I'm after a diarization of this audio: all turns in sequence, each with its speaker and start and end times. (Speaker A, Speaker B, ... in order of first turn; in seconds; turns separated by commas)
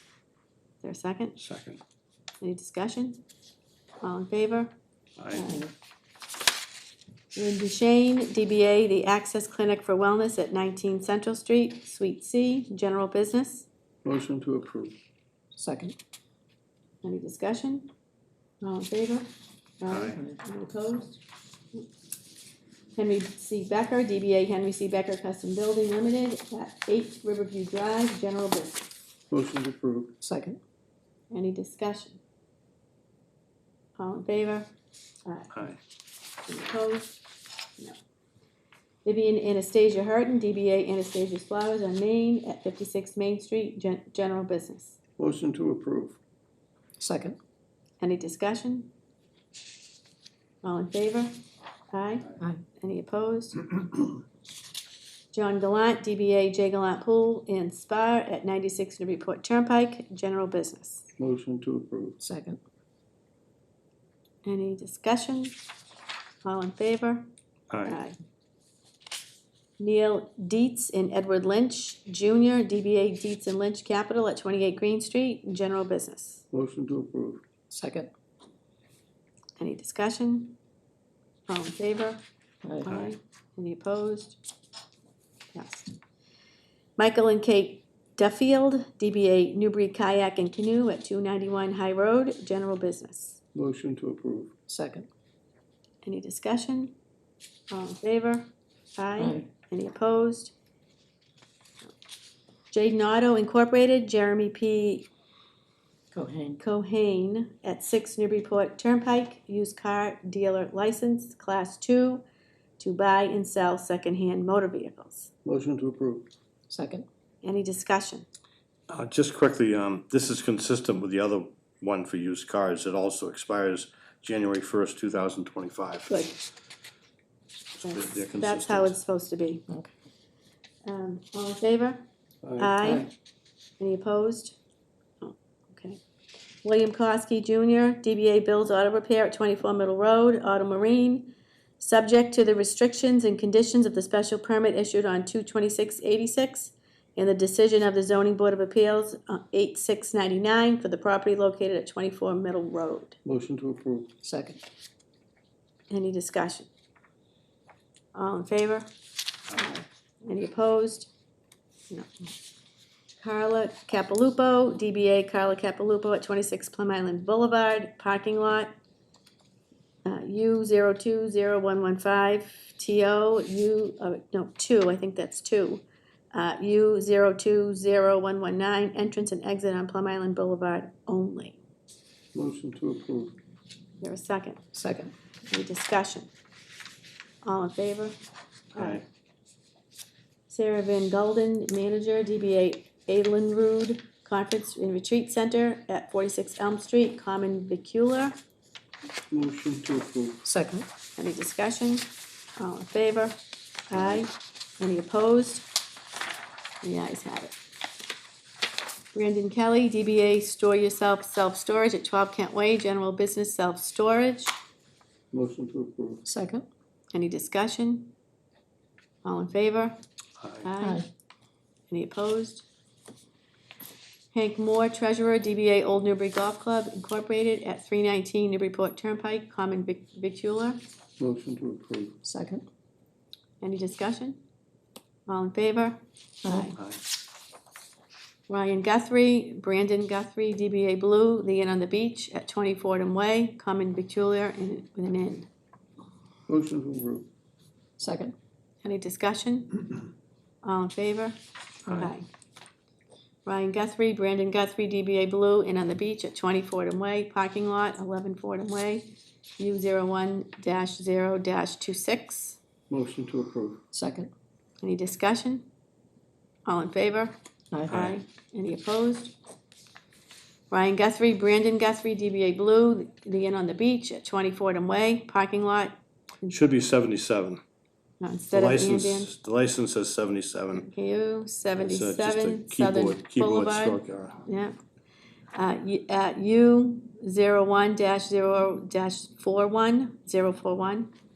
Speaker A: 0.8-1.4, Speaker B: 1.4-1.8, Speaker A: 2.4-3.2, Speaker A: 4.0-4.7, Speaker B: 5.2-5.4, Speaker A: 5.3-5.7, Speaker A: 7.3-13.7, Speaker C: 14.0-14.9, Speaker D: 15.5-15.9, Speaker A: 17.0-17.9, Speaker A: 18.6-19.3, Speaker A: 19.8-21.1, Speaker B: 19.9-20.2, Speaker A: 22.9-28.9, Speaker C: 29.3-30.1, Speaker D: 30.2-30.6, Speaker A: 31.3-32.2, Speaker A: 34.0-34.7, Speaker A: 35.2-35.5, Speaker B: 35.5-35.8, Speaker A: 36.5-37.2, Speaker A: 39.0-45.0, Speaker C: 45.2-46.2, Speaker D: 47.0-47.4, Speaker A: 48.0-48.9, Speaker A: 50.6-51.4, Speaker A: 51.9-53.8, Speaker A: 55.3-61.0, Speaker C: 61.2-62.2, Speaker D: 62.2-62.6, Speaker A: 64.4-65.5, Speaker A: 66.4-67.3, Speaker B: 67.7-68.0, Speaker A: 67.8-68.2, Speaker A: 69.8-76.4, Speaker C: 76.5-77.4, Speaker D: 77.7-78.1, Speaker A: 79.6-80.5, Speaker A: 81.5-82.2, Speaker D: 82.6-82.9, Speaker A: 82.8-84.4, Speaker B: 82.9-83.1, Speaker A: 85.5-85.9, Speaker A: 87.0-93.4, Speaker C: 93.5-94.5, Speaker D: 94.7-95.1, Speaker A: 96.0-96.9, Speaker A: 97.7-100.5, Speaker D: 99.2-99.5, Speaker A: 102.7-105.1, Speaker D: 106.1-106.6, Speaker A: 106.6-112.2, Speaker A: 112.8-115.3, Speaker C: 115.4-116.3, Speaker D: 116.7-117.0, Speaker A: 117.4-118.2, Speaker B: 118.9-126.2, Speaker A: 126.1-126.4, Speaker B: 127.8-128.9, Speaker A: 127.8-129.7, Speaker A: 130.8-132.0, Speaker C: 132.4-133.1, Speaker A: 132.6-133.1, Speaker A: 133.8-134.6, Speaker A: 135.2-136.0, Speaker A: 136.6-153.2, Speaker C: 153.2-154.1, Speaker D: 154.2-154.6, Speaker A: 155.9-156.7, Speaker A: 158.1-158.9, Speaker A: 159.5-161.1, Speaker A: 161.9-162.3, Speaker A: 163.2-168.7, Speaker A: 170.0-181.6, Speaker C: 182.3-183.3, Speaker A: 184.0-184.6, Speaker D: 184.7-185.1, Speaker A: 185.5-186.3, Speaker A: 187.4-188.1, Speaker B: 188.7-189.0, Speaker A: 188.8-189.0, Speaker A: 190.5-198.3, Speaker C: 199.3-200.4, Speaker D: 200.4-200.9, Speaker A: 201.2-203.4, Speaker A: 203.9-205.7, Speaker A: 206.8-207.5, Speaker A: 209.1-214.5, Speaker C: 215.3-216.2, Speaker D: 216.2-216.6, Speaker A: 217.1-218.1, Speaker A: 219.2-220.0, Speaker B: 220.4-220.7, Speaker A: 220.6-221.0, Speaker D: 220.8-221.1, Speaker A: 221.9-222.7, Speaker A: 224.3-230.8, Speaker C: 231.2-232.2, Speaker D: 232.2-232.6, Speaker A: 233.6-234.4, Speaker A: 235.3-236.8, Speaker D: 236.4-236.7, Speaker A: 238.5-245.5, Speaker C: 246.5-247.2, Speaker D: 248.0-248.3, Speaker A: 248.8-249.8, Speaker A: 250.6-251.4, Speaker A: 251.9-252.3, Speaker A: 253.4-262.6, Speaker C: 262.9-263.8, Speaker D: 263.9-264.3, Speaker A: 264.8-265.6, Speaker A: 266.6-269.3, Speaker B: 267.9-268.2, Speaker A: 270.7-276.5, Speaker B: 276.5-277.6, Speaker A: 278.2-279.3, Speaker B: 278.5-280.9, Speaker A: 280.7-284.7, Speaker B: 281.7-284.4, Speaker A: 285.5-291.1